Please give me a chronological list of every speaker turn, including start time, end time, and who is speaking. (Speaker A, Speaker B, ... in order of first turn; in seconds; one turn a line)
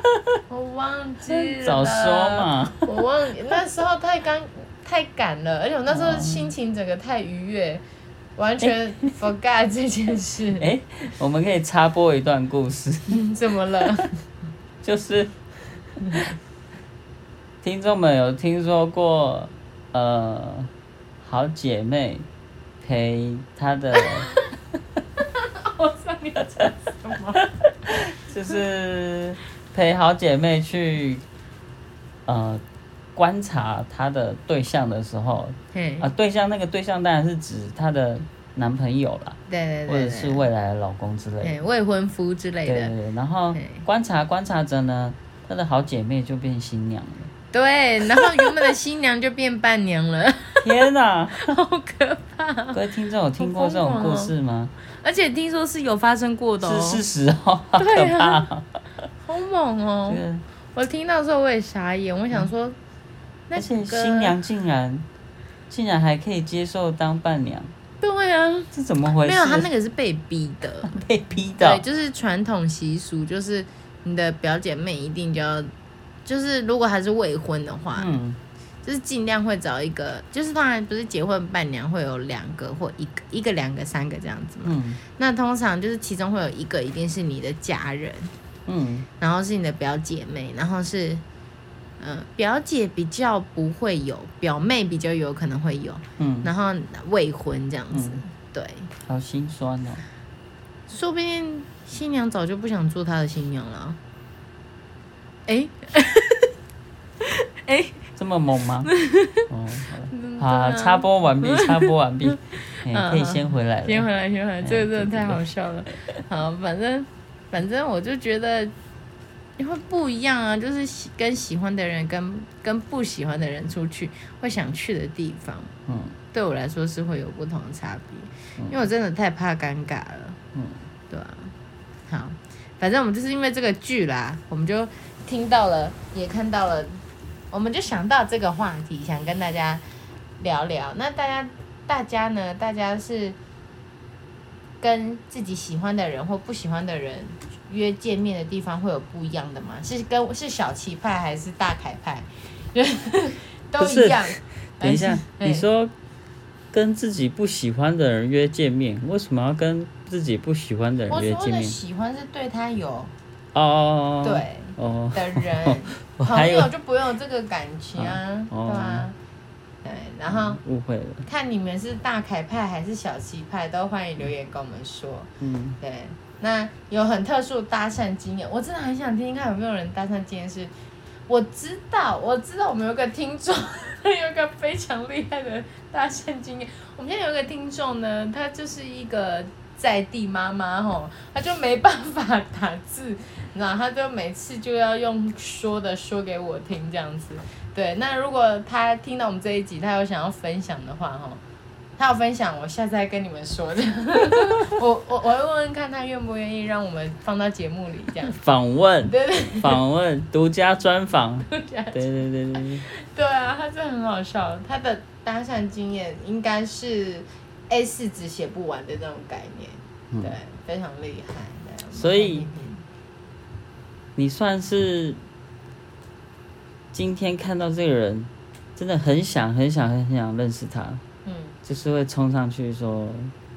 Speaker A: 0.5-7.8
Speaker B: 1.3-2.9
Speaker B: 5.9-6.5
Speaker A: 8.4-10.7
Speaker B: 10.6-13.2
Speaker A: 13.1-14.2
Speaker B: 14.8-15.4
Speaker B: 17.6-20.7
Speaker B: 21.2-22.3
Speaker B: 22.8-24.3
Speaker A: 24.0-24.5
Speaker A: 25.2-27.5
Speaker B: 27.9-31.2
Speaker B: 32.3-32.6
Speaker B: 33.1-41.6
Speaker A: 35.7-36.1
Speaker A: 39.5-40.5
Speaker A: 41.4-42.9
Speaker B: 42.7-47.3
Speaker A: 43.5-43.9
Speaker A: 47.5-50.8
Speaker B: 50.6-51.5
Speaker A: 51.4-52.8
Speaker B: 52.7-54.7
Speaker A: 53.4-54.3
Speaker A: 54.9-57.0
Speaker B: 56.6-58.7
Speaker A: 57.8-58.5
Speaker A: 59.2-60.2
Speaker B: 60.1-60.5
Speaker A: 60.8-62.8
Speaker A: 63.5-64.3
Speaker B: 63.5-65.1
Speaker B: 65.7-67.7
Speaker A: 68.0-71.0
Speaker B: 68.7-69.7
Speaker B: 70.9-71.8
Speaker A: 71.6-75.7
Speaker A: 76.3-78.1
Speaker B: 78.0-78.4
Speaker A: 78.8-88.3
Speaker B: 84.6-85.0
Speaker B: 88.7-89.1
Speaker A: 89.2-91.2
Speaker A: 92.0-98.9
Speaker B: 96.2-96.5
Speaker B: 97.9-98.2
Speaker B: 99.0-100.0
Speaker A: 100.9-104.0
Speaker A: 105.5-106.5
Speaker A: 107.6-108.0
Speaker B: 108.2-108.9
Speaker A: 108.9-109.4
Speaker B: 109.5-114.1
Speaker A: 110.1-111.7
Speaker A: 112.3-118.7
Speaker B: 114.6-115.4
Speaker A: 119.6-125.7
Speaker B: 125.9-126.2
Speaker A: 126.3-130.4
Speaker B: 130.5-130.8
Speaker A: 131.1-131.5
Speaker A: 132.1-139.8
Speaker A: 140.4-143.4
Speaker A: 144.8-155.7
Speaker B: 153.8-155.9
Speaker B: 156.7-161.8
Speaker A: 161.1-163.1
Speaker B: 163.5-166.7
Speaker A: 164.2-169.2
Speaker B: 168.0-169.1
Speaker A: 169.8-170.6
Speaker B: 170.3-171.3
Speaker A: 171.2-180.7
Speaker B: 175.4-175.8
Speaker A: 181.3-201.4
Speaker A: 202.0-208.4
Speaker B: 208.3-212.8
Speaker A: 209.1-209.8
Speaker A: 211.5-212.0
Speaker A: 212.5-222.8
Speaker B: 221.9-222.4
Speaker B: 224.2-225.2
Speaker B: 226.9-231.0
Speaker A: 231.2-231.6
Speaker B: 231.7-233.3